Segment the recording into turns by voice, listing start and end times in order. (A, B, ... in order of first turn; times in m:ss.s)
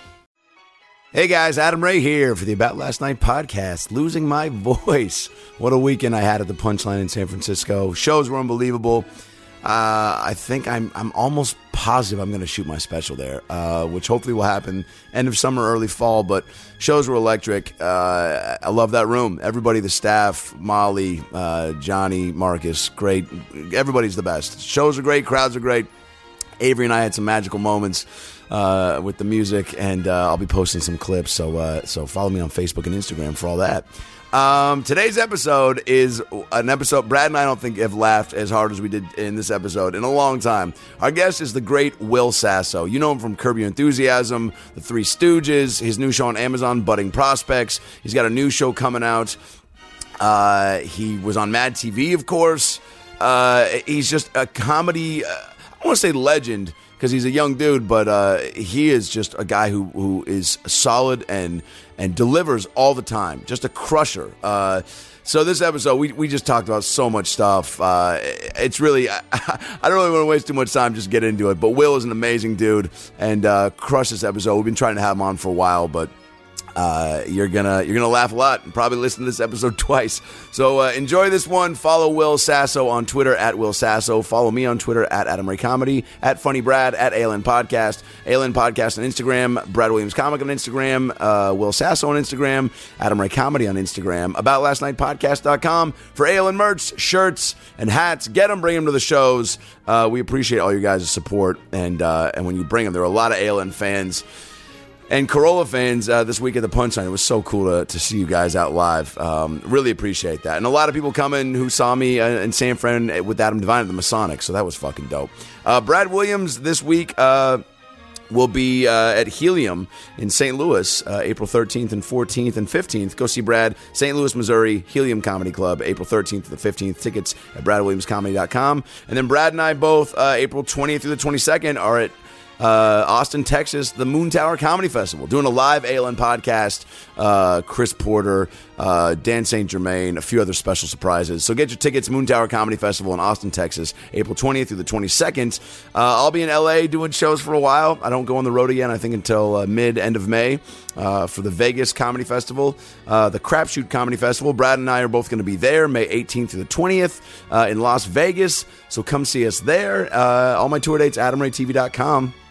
0:01.1-0:09.1 A
0:09.6-0:25.9 A
0:26.6-0:49.4 A
0:50.2-1:16.1 A
1:16.8-1:44.2 A
1:45.1-1:57.6 A
1:58.3-2:42.3 A